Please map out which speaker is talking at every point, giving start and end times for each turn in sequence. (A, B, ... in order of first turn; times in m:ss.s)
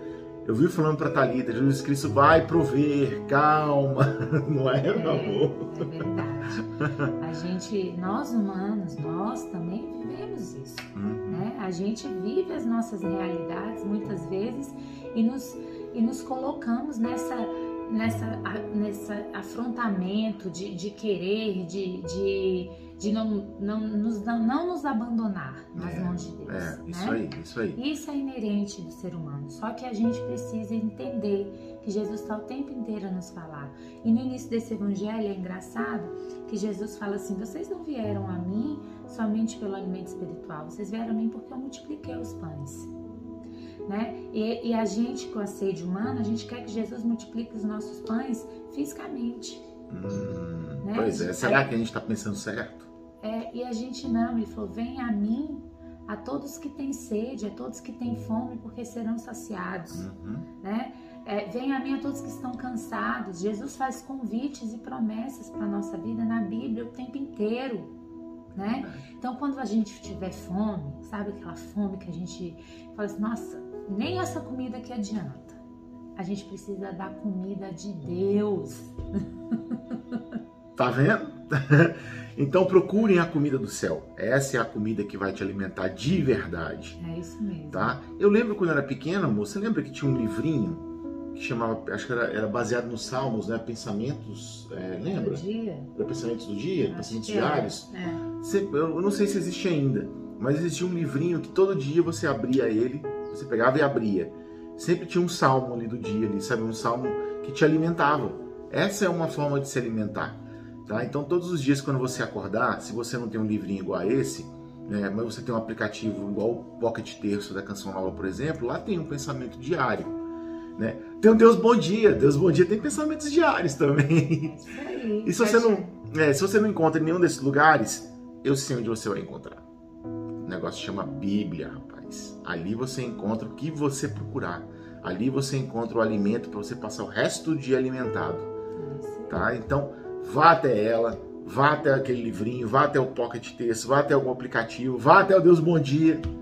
0:00.4-0:06.1 A
0:04.9-0:42.9 B
0:06.8-0:07.1 A
0:11.0-0:11.5 A
0:25.8-0:27.8 A
0:43.9-0:49.6 B
0:49.9-0:52.9 A
0:50.8-0:51.7 B
0:53.2-1:00.1 B
0:59.9-1:00.5 A
1:00.6-1:07.9 B
1:08.6-1:15.6 B
1:08.6-1:09.1 A
1:16.2-1:20.2 B
1:20.8-1:27.0 A
1:27.0-1:28.0 B
1:27.7-2:00.2 A
1:35.1-1:35.9 B
1:36.9-1:38.2 B
2:00.8-2:04.6 A
2:04.4-2:06.0 B
2:05.2-2:09.6 A
2:10.4-2:18.5 A
2:18.8-2:19.4 B
2:19.3-2:26.2 A